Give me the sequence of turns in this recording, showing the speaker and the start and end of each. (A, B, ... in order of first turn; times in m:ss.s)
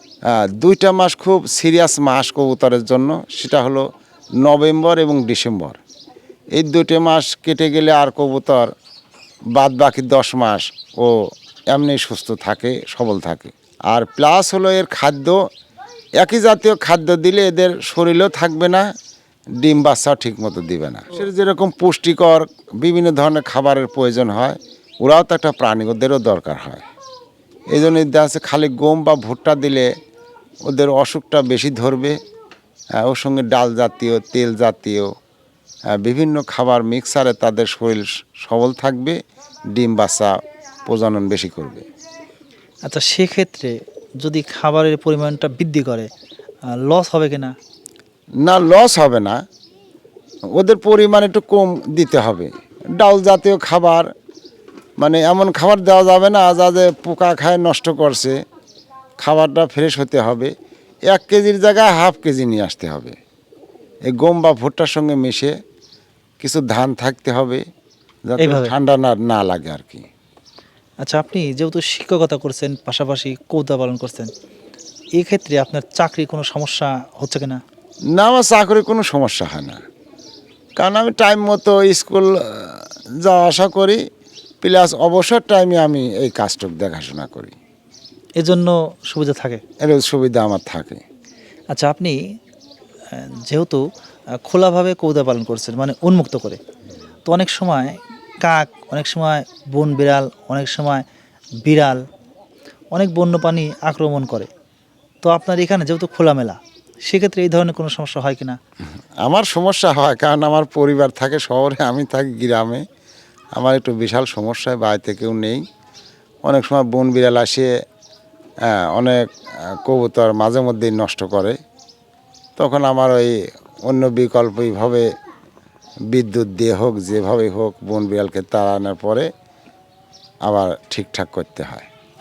0:00.3-0:03.8 A
0:04.4-0:05.8 A
0:06.6-0:08.7 A
0:09.6-0:11.2 A
0:11.7-0:15.4 A
0:16.2-0:18.9 A
0:19.6-0:26.9 A
0:27.7-0:29.9 A
0:30.7-0:32.2 A
0:33.0-0:35.1 A
0:36.0-0:39.2 A
0:39.7-0:41.9 A
0:42.9-0:46.1 B
0:46.8-0:47.6 B
0:48.4-0:49.4 A
0:50.6-0:54.1 A
0:55.0-0:58.4 A
0:59.2-1:00.5 A
1:01.1-1:03.2 A
1:04.1-1:05.6 A
1:06.4-1:07.6 A
1:08.3-1:10.1 A
1:08.4-1:08.7 B
1:11.0-1:14.3 B
1:15.2-1:17.6 B
1:18.2-1:19.8 A
1:20.8-1:24.0 A
1:24.6-1:27.6 A
1:28.4-1:29.6 B
1:29.8-1:31.0 A
1:31.7-1:32.2 B
1:33.1-1:33.8 B
1:34.4-1:36.6 B
1:37.3-1:37.9 B
1:38.4-1:41.0 B
1:41.6-1:42.0 B
1:42.9-1:44.5 B
1:45.2-1:48.6 B
1:49.2-1:52.8 A
1:53.6-1:55.6 A
1:56.4-1:57.7 A
1:58.7-2:01.6 A
2:02.6-2:03.4 A
2:03.9-2:05.1 A
2:06.1-2:09.3 A
2:10.5-2:11.9 A